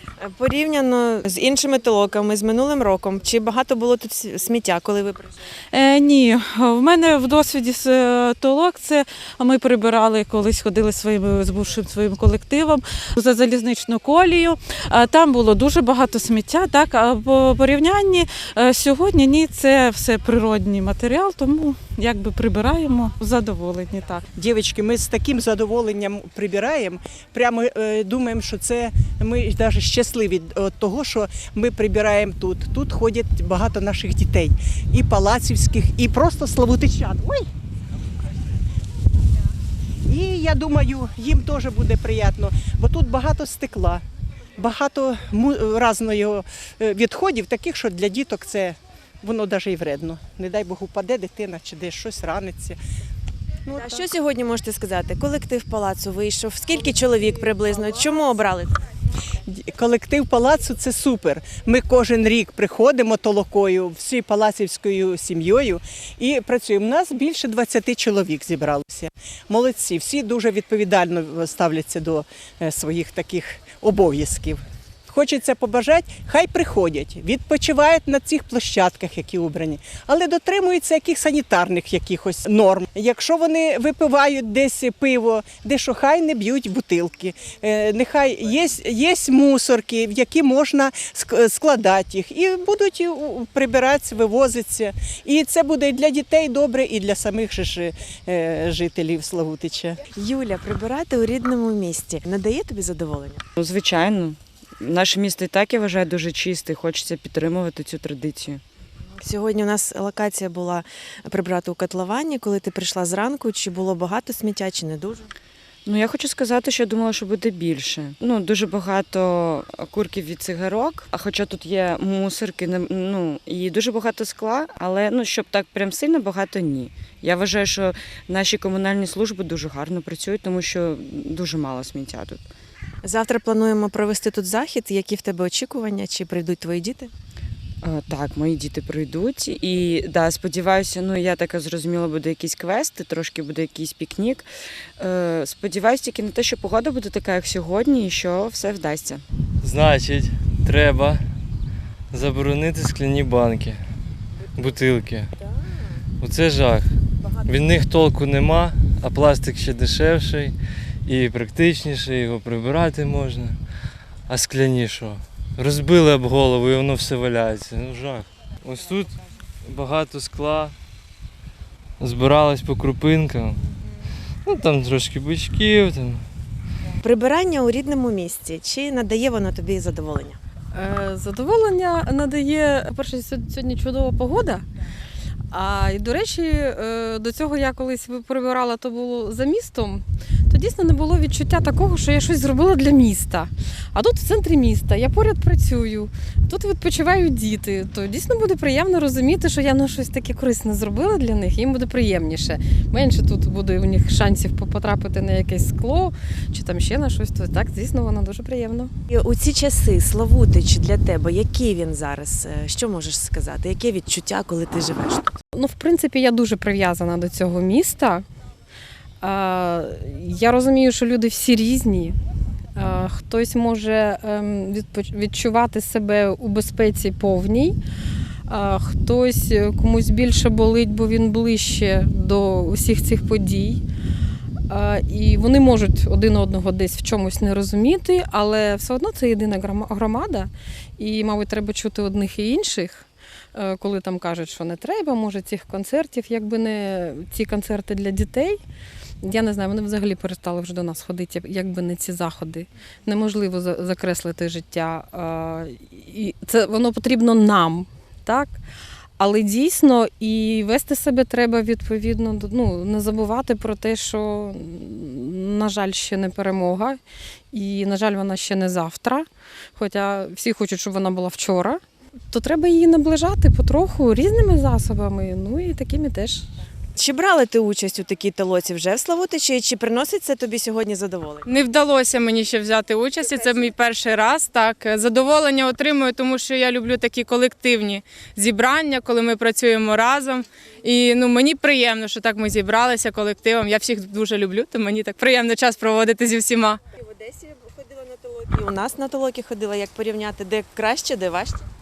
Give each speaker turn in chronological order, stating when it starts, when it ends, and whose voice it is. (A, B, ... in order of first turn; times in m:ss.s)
0:00.2-0:05.3 A
0:05.7-0:24.2 B
0:24.4-0:37.5 C
0:40.1-0:44.0 C
0:44.6-0:52.8 C
0:53.6-0:54.0 C
0:53.8-0:58.8 A
0:59.4-1:40.0 C
1:40.1-1:43.4 A
1:43.6-1:48.6 D
1:49.2-1:55.3 A
1:55.8-2:12.5 D
2:13.0-2:17.1 A
2:17.8-2:29.2 D
2:29.6-2:31.2 E
2:32.1-2:33.8 E
2:34.5-2:35.3 E
2:36.2-2:40.5 E
2:41.1-2:43.6 E
2:44.3-2:50.7 E
2:52.0-2:53.6 E
2:54.4-2:56.2 E
2:57.0-3:00.4 A
3:00.7-3:04.6 F
3:05.5-3:28.9 F
3:29.1-3:35.4 A
3:35.5-3:38.2 F
3:39.2-3:42.2 F
3:42.7-3:47.8 F
3:48.5-3:53.8 F
3:54.7-4:08.6 F
4:09.2-4:18.6 F
4:19.2-4:27.0 F
4:27.5-4:31.8 F
4:32.3-4:36.4 F
4:36.9-4:41.5 A
4:41.4-4:56.8 G
4:56.9-5:01.6 A